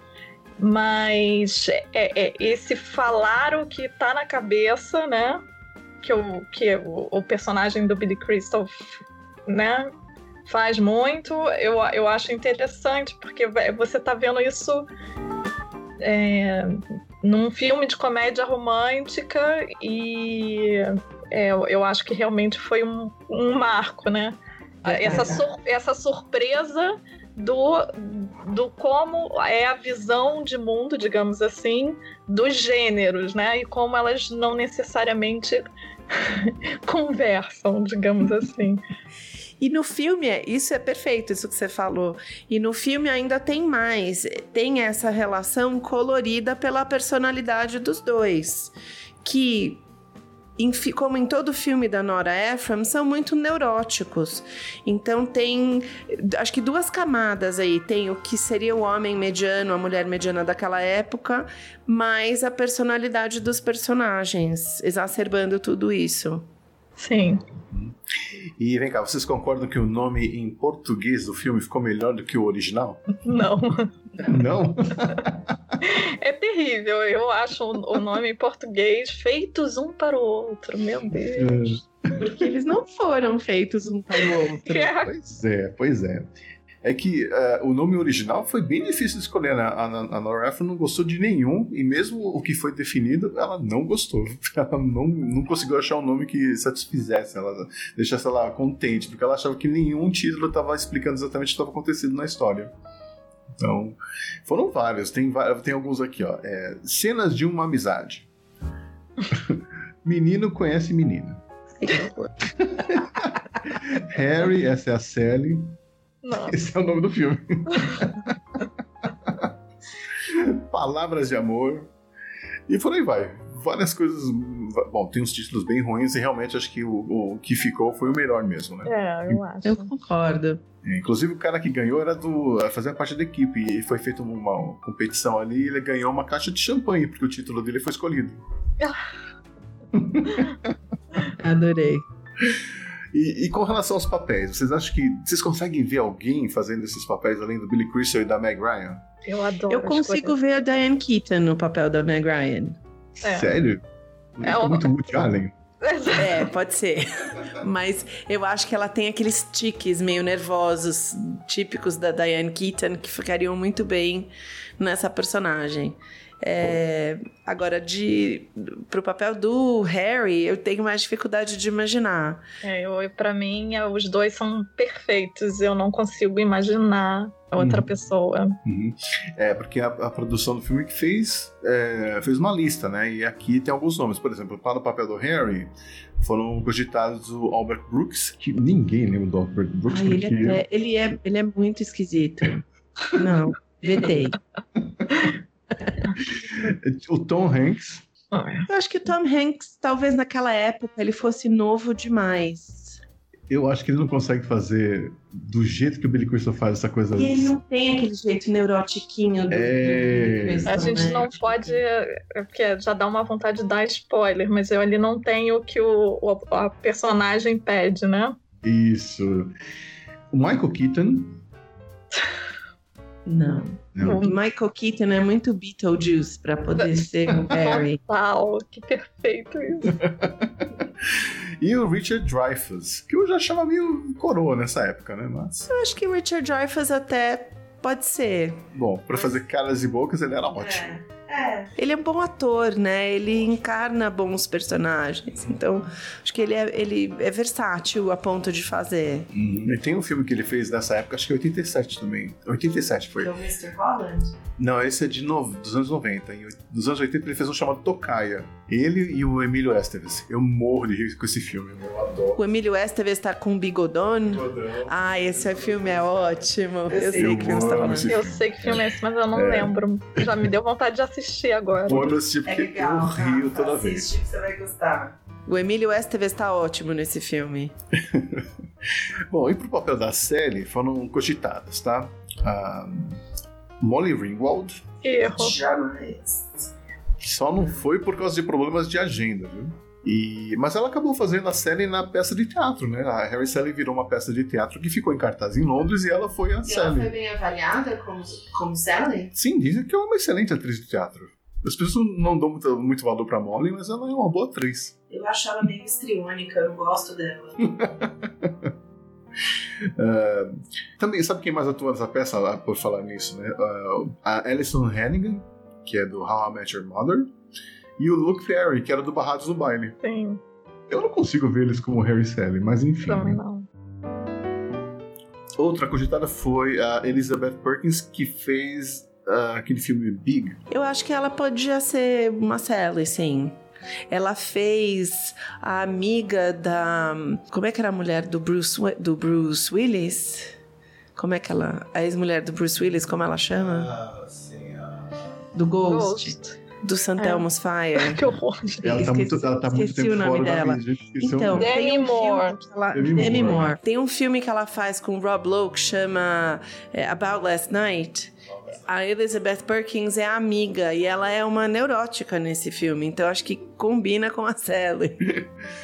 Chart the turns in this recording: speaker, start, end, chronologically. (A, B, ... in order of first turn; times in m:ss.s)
0:00.6-0:05.4 A
0:06.0-0:09.9 A
0:10.5-0:14.9 A
0:16.0-0:35.6 A
0:24.8-0:25.5 B
0:36.2-0:38.8 A
0:39.6-0:48.7 B
0:49.2-0:49.8 B
0:50.6-1:06.4 B
1:07.0-1:07.4 A
1:08.6-1:13.2 C
1:13.2-1:13.9 A
1:14.2-1:15.5 C
1:15.8-1:21.6 A
1:21.4-1:22.3 C
1:22.2-1:24.9 B
1:24.6-1:25.1 A
1:24.7-1:26.3 C
1:26.8-1:42.7 C
1:43.6-1:48.3 C
1:49.3-1:51.4 C
1:51.8-1:52.3 B
1:52.6-1:55.8 C
1:56.2-1:56.6 A
1:56.3-1:58.4 C
1:59.2-1:59.5 C
2:00.3-2:01.9 C
2:02.7-2:09.4 C
2:08.8-2:09.9 A
2:09.6-2:10.6 B
2:10.8-2:18.4 C
2:19.9-2:20.7 C
2:21.3-2:22.0 B
2:22.4-2:29.0 C
2:29.3-2:30.4 A
2:29.7-2:32.8 B
2:33.2-2:33.8 C
2:33.2-2:33.6 A
2:34.4-2:35.5 C
2:34.4-2:35.1 A
2:35.8-2:36.5 A
2:36.2-2:52.4 B
2:52.6-2:58.6 A
2:57.6-2:57.9 C
2:58.6-3:10.6 C
3:09.9-3:12.6 B
3:13.2-3:14.4 B
3:16.2-3:18.0 C
3:18.3-3:18.7 A
3:18.7-3:23.0 B
3:23.5-3:27.5 C
3:27.2-3:31.8 B
3:29.5-3:30.9 C
3:30.7-3:38.4 A
3:38.6-3:39.5 C
3:40.3-3:41.4 C
3:43.3-3:48.0 B
3:44.0-3:44.3 C
3:44.0-3:44.4 A
3:46.8-3:50.0 A
3:49.9-3:55.7 C
3:55.7-3:59.4 B
3:58.7-4:01.0 C
4:00.5-4:09.3 B
4:09.3-4:13.3 C
4:13.2-4:14.4 B
4:14.6-4:22.4 C
4:22.4-4:28.2 B
4:24.3-4:30.3 C
4:28.0-4:32.1 A
4:31.9-4:34.1 C
4:31.9-4:37.7 B
4:38.0-4:38.5 C
4:39.3-4:43.2 C
4:43.8-4:44.8 C
4:45.0-4:45.6 A
4:45.3-4:46.5 B
4:47.2-4:57.1 C
4:56.6-4:59.3 B
4:59.4-5:05.0 C
5:05.1-5:07.8 B
5:07.6-5:08.7 C
5:10.0-5:17.3 C
5:18.0-5:20.0 C
5:20.0-5:20.4 A
5:20.9-5:23.4 C
5:23.0-5:23.7 A
5:25.6-5:30.6 C
5:30.7-5:33.6 B
5:34.1-5:40.5 B
5:41.2-5:43.9 B
5:43.6-5:45.2 C
5:45.6-5:48.3 B
5:45.9-5:46.6 A
5:47.2-5:47.4 A
5:48.0-5:49.0 A
5:48.8-6:05.4 B
5:48.8-5:51.7 C
5:51.5-5:52.6 A
5:52.9-5:53.7 C